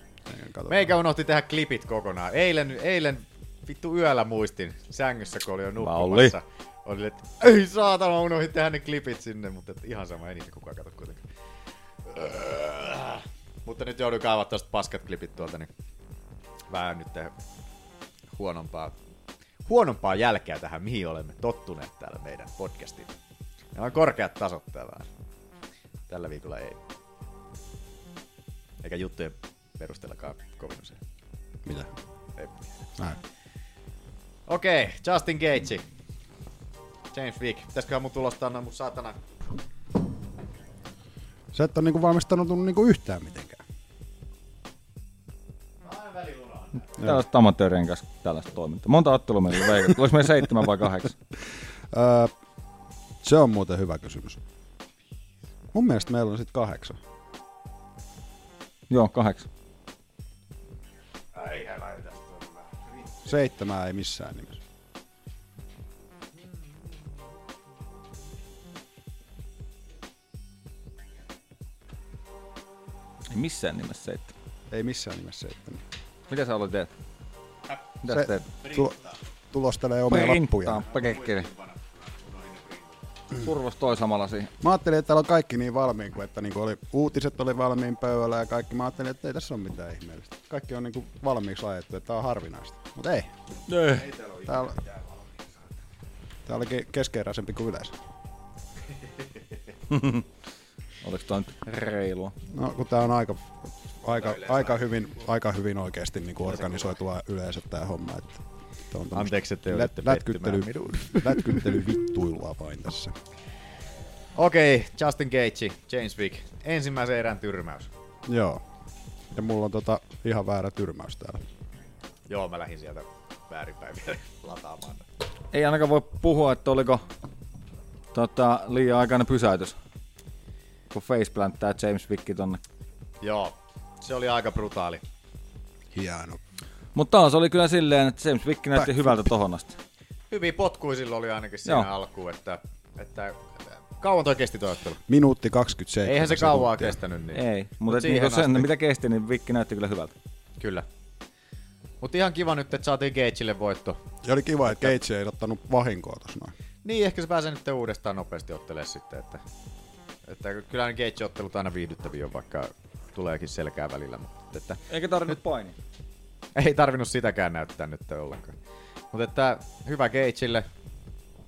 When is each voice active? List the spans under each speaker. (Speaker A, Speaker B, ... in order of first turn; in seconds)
Speaker A: 0.3-0.9, 31.6-31.9, 41.5-43.6, 51.9-52.3, 53.2-54.4, 55.7-57.0, 63.2-64.6, 74.7-75.8, 78.1-79.0, 79.5-80.9, 84.6-93.3, 94.4-94.8, 96.5-98.0, 102.5-113.1, 118.3-118.6, 119.3-121.4, 135.9-136.4, 138.7-139.3, 145.1-147.0, 154.2-156.5
Speaker B: 0.7-11.2, 12.1-15.7, 16.7-17.3, 18.3-18.9, 19.6-23.1, 23.7-25.1, 26.1-26.8, 28.8-31.0, 32.4-32.8, 34.5-35.8, 37.1-39.2, 45.8-47.0, 61.3-62.6, 78.6-79.0, 80.9-83.0, 109.1-111.8, 114.3-117.9, 122.3-125.0, 133.2-135.0, 140.3-145.0, 146.0-148.7, 150.6-150.8, 152.0-154.0, 156.8-159.4, 160.3-164.8, 166.5-168.5, 169.1-170.7
Speaker C: 5.8-6.3, 47.0-51.1, 58.9-59.5, 73.3-74.3, 76.3-76.9, 78.0-78.5, 80.1-81.5, 83.4-84.5, 93.7-94.1, 99.9-100.2, 101.0-102.3, 125.5-127.0, 128.1-129.8, 130.9-132.6, 136.9-139.8, 147.3-150.1, 164.9-165.8